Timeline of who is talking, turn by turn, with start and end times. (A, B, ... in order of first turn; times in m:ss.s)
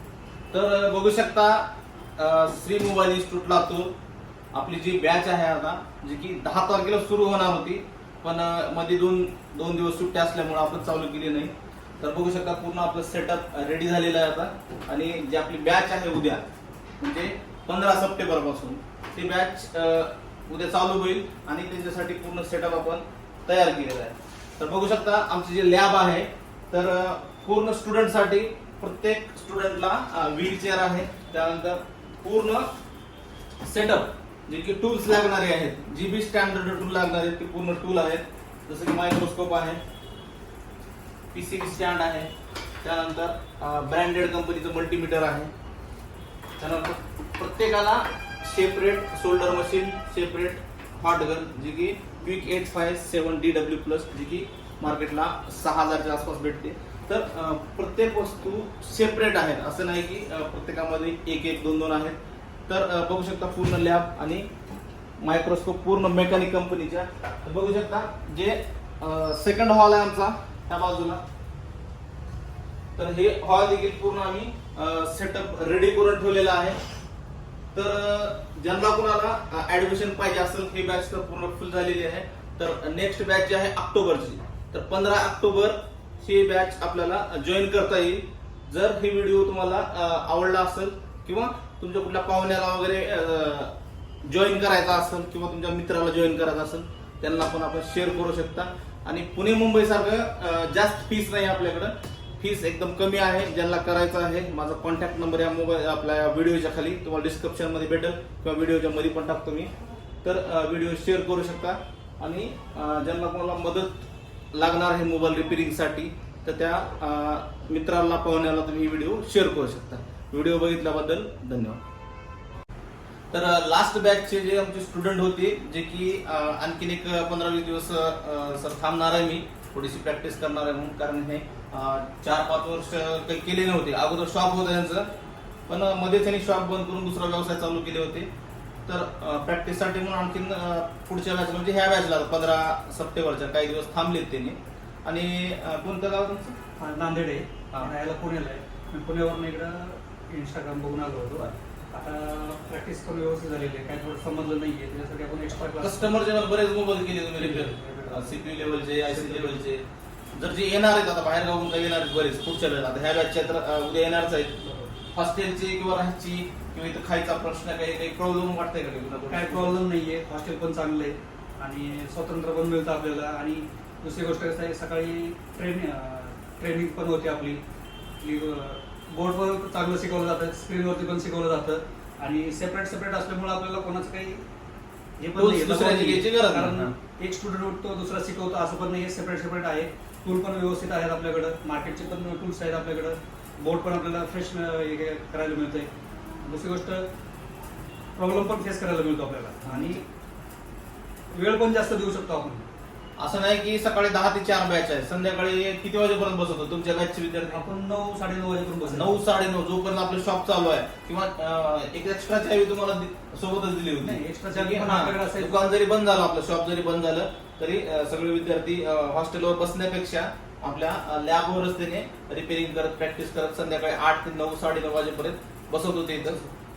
0:00.5-0:03.9 A
0:04.5-0:16.4 A
0:17.0-0:32.7 A
0:33.6-0:39.8 A
0:41.3-0:42.3 A
0:42.8-0:45.5 A
0:46.6-1:02.2 A
1:02.7-1:04.5 A
1:05.2-1:11.2 A
1:13.0-1:16.8 A
1:17.7-1:49.7 A
1:50.2-2:01.8 A
2:03.3-2:15.1 A
2:15.7-2:18.3 A
2:18.9-2:26.6 A
2:26.8-2:36.2 B
2:35.7-2:44.6 A
2:37.3-2:39.6 B
2:44.6-2:44.9 B
2:45.1-2:49.8 A
2:49.3-2:57.6 B
2:58.2-3:04.4 B
3:05.2-3:15.9 B
3:05.4-3:06.9 A
3:16.4-3:17.1 B
3:18.2-3:20.0 B
3:19.6-3:20.0 A
3:21.3-3:22.7 B
3:23.2-3:27.6 A
3:27.5-3:29.2 B
3:28.8-3:46.4 A
3:34.0-3:35.6 B
3:46.2-3:46.5 B